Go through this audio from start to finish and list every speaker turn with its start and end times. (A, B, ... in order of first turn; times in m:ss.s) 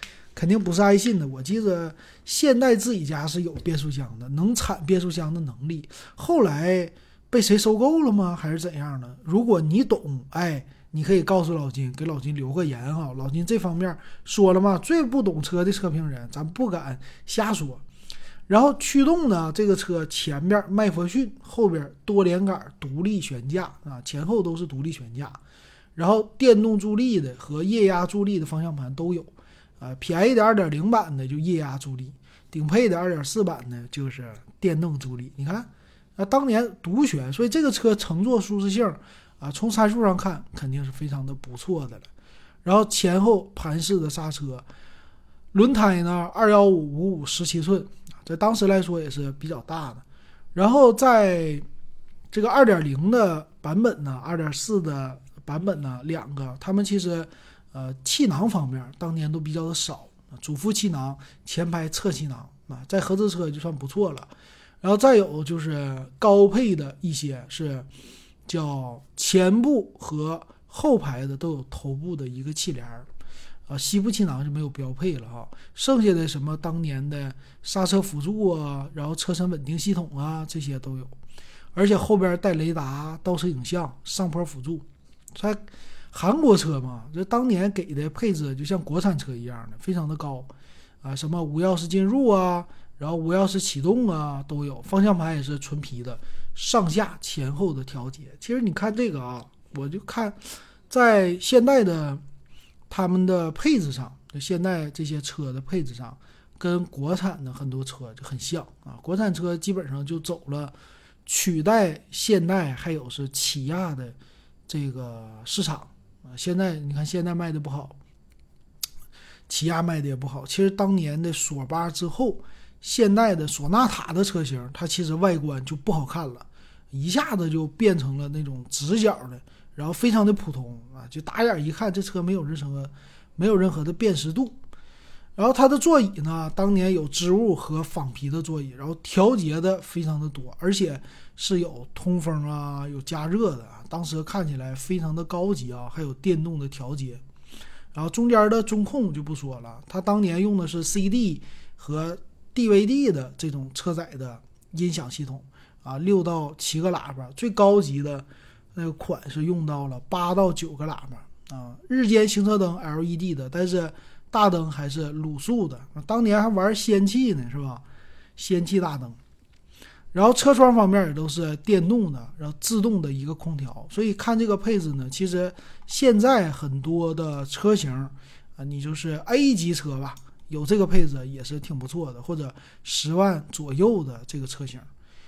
0:00.4-0:17.8 A
0:18.5-0:25.4 A
0:26.0-0:42.1 A
0:42.6-0:44.7 A
0:45.5-0:50.0 A
0:50.6-0:51.7 A
0:52.3-1:04.3 A
1:04.8-1:07.9 A
1:08.5-1:13.1 A
1:13.7-1:21.1 A
1:21.8-1:30.5 A
1:31.0-1:42.2 A
1:42.9-1:50.7 A
1:51.3-1:54.2 A
1:54.7-1:58.0 A
1:59.5-2:14.6 A
2:15.4-2:27.2 A
2:27.9-2:47.8 A
2:48.4-2:49.2 A
2:50.1-3:04.9 A